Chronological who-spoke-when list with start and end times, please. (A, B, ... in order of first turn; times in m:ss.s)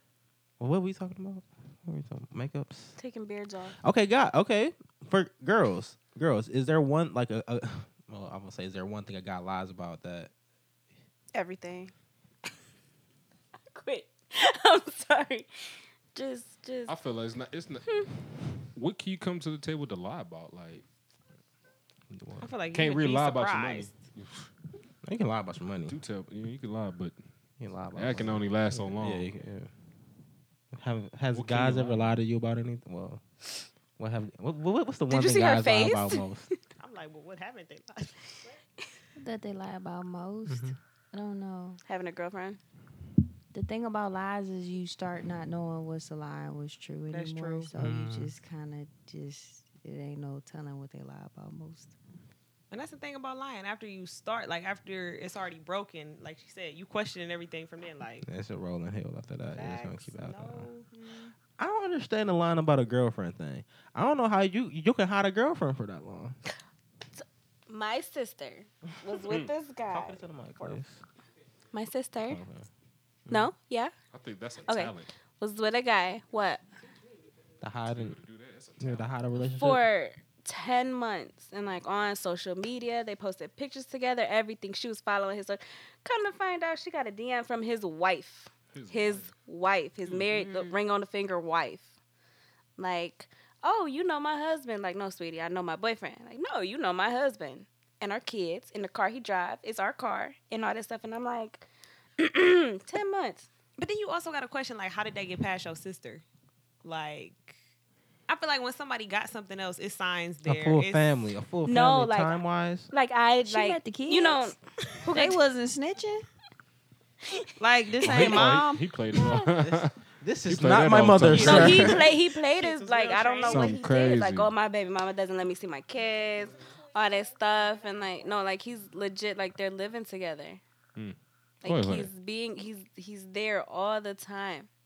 0:00.6-0:03.0 A
0:03.0-0:03.8 B
0:03.8-0:10.3 A
0:11.3-0:11.9 B
0:13.7-0:15.5 B
0:16.1-0:16.9 B
0:16.9-0:17.8 C
0:18.7-0:20.8 C
0:22.1-0:22.5 A
0:22.4-0:24.0 D
0:22.7-0:24.5 C
0:25.0-0:26.0 A
0:25.9-0:27.2 C
0:27.6-0:29.7 A
0:27.9-0:29.3 C
0:30.7-0:33.2 A
0:31.3-0:32.1 C
0:34.0-0:36.5 A
0:35.1-0:36.6 B
0:36.8-0:38.6 D
0:39.2-0:41.8 E
0:40.4-0:40.8 A
0:41.8-0:42.6 B
0:43.5-0:51.9 E
0:47.1-0:47.7 D
0:47.8-0:48.3 A
0:52.7-0:58.2 D
0:58.2-1:00.7 A
0:59.5-1:01.3 D
1:01.6-1:06.4 A
1:07.1-1:10.8 B
1:09.9-1:11.0 A
1:11.7-1:12.4 B
1:12.2-1:12.7 A
1:13.2-1:13.5 A
1:13.3-1:13.9 B
1:14.1-1:15.1 C
1:14.6-1:16.6 B
1:17.6-1:18.2 A
1:17.9-1:19.2 C
1:18.8-1:19.8 A
1:19.6-1:31.9 B
1:28.7-1:29.3 C
1:30.0-1:30.8 C
1:32.8-1:41.6 B
1:42.2-1:43.5 B
1:43.8-1:46.2 D
1:46.8-1:47.6 D
1:48.3-1:51.2 D
1:50.4-1:52.9 A
1:51.6-1:52.4 B
1:52.9-1:55.4 B
1:53.4-1:54.5 E
1:55.0-1:56.2 E
1:57.6-1:58.9 E
1:58.0-1:59.9 C
1:59.5-2:02.0 A
2:00.5-2:02.0 C
2:01.3-2:10.6 B
2:01.5-2:03.8 D
2:03.4-2:04.5 C
2:11.0-2:12.1 C
2:11.6-2:14.7 B